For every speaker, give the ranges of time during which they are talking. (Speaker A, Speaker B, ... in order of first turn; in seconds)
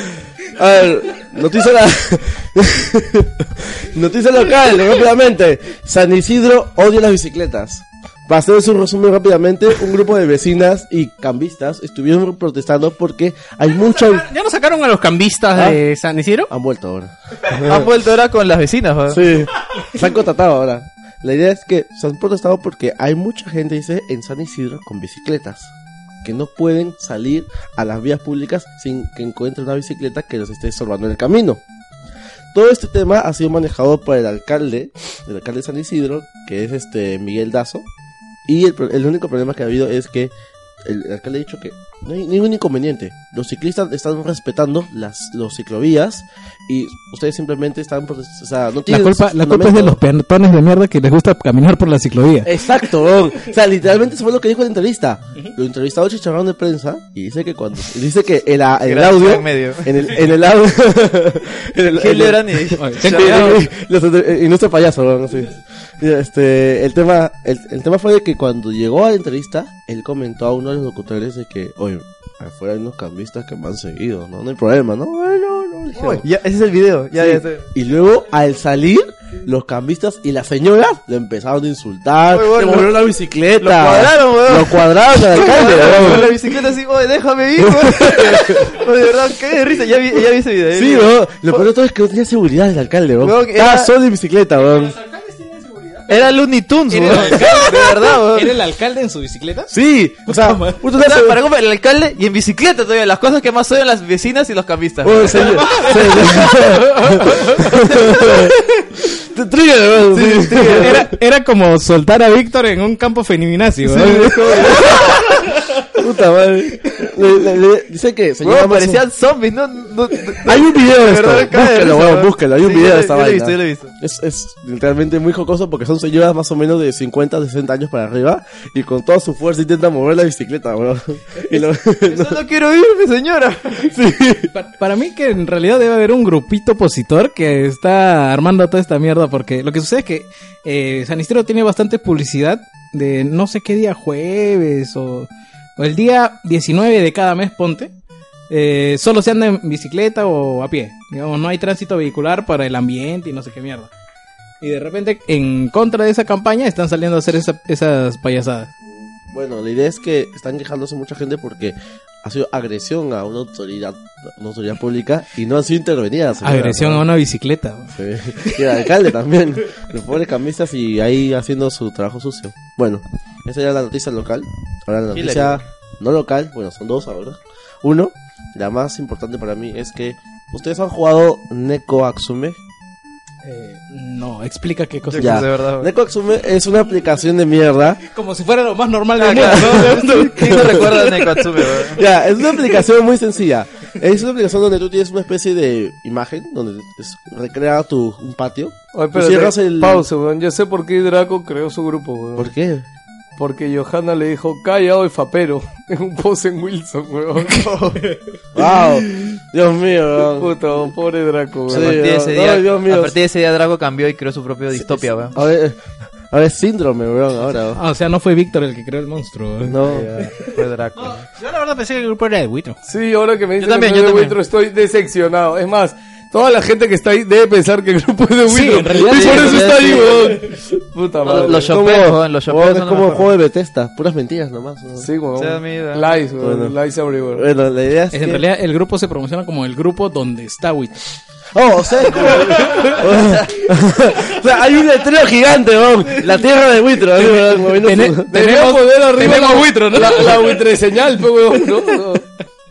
Speaker A: 0.6-14.3, 15.5-15.8, 16.5-17.9, 19.1-25.7, 26.2-31.6, 32.5-37.9, 38.5-40.3, 40.9-50.0, 52.5-76.2, 77.2-86.4, 87.6-88.8, 90.7-95.0, 99.7-101.4, 105.0-108.5, 109.1-111.2, 113.9-115.3, 115.9-119.0, 120.4-132.4, 133.8-134.5, 158.9-167.1, 167.9-182.6, 185.2-188.0, 189.4-200.1, 202.4-202.8, 208.6-210.6, 211.7-213.2, 214.8-215.8, 216.3-217.8, 219.7-220.1, 229.0-230.0, 231.6-235.1, 236.4-236.8, 237.3-238.4, 241.5-248.3
Speaker B: 13.8-16.5, 94.8-96.1, 221.0-222.8
Speaker C: 17.6-19.2, 58.9-60.0, 62.0-63.6, 76.0-77.7, 82.3-83.0, 83.6-91.7, 93.2-93.9, 96.1-98.5, 100.9-106.0, 118.4-123.9, 132.1-133.9, 175.2-175.6, 185.1-185.9, 189.2-192.1, 207.5-208.0, 211.7-215.3, 219.8-221.2, 223.6-224.4, 229.7-230.1, 231.2-233.3, 235.4-236.1
Speaker D: 48.9-52.5, 62.8-63.6, 96.9-99.7, 100.3-100.8, 105.6-106.3, 110.6-114.8, 134.5-147.9, 148.5-153.9, 154.6-158.7, 166.4-168.7, 183.4-185.5, 188.0-190.9, 217.8-219.8, 228.5-230.4, 238.1-241.0, 247.8-250.6
Speaker E: 110.5-110.8, 198.9-202.5, 203.4-207.7, 210.3-212.0, 222.9-231.8, 235.0-237.4, 248.3-252.2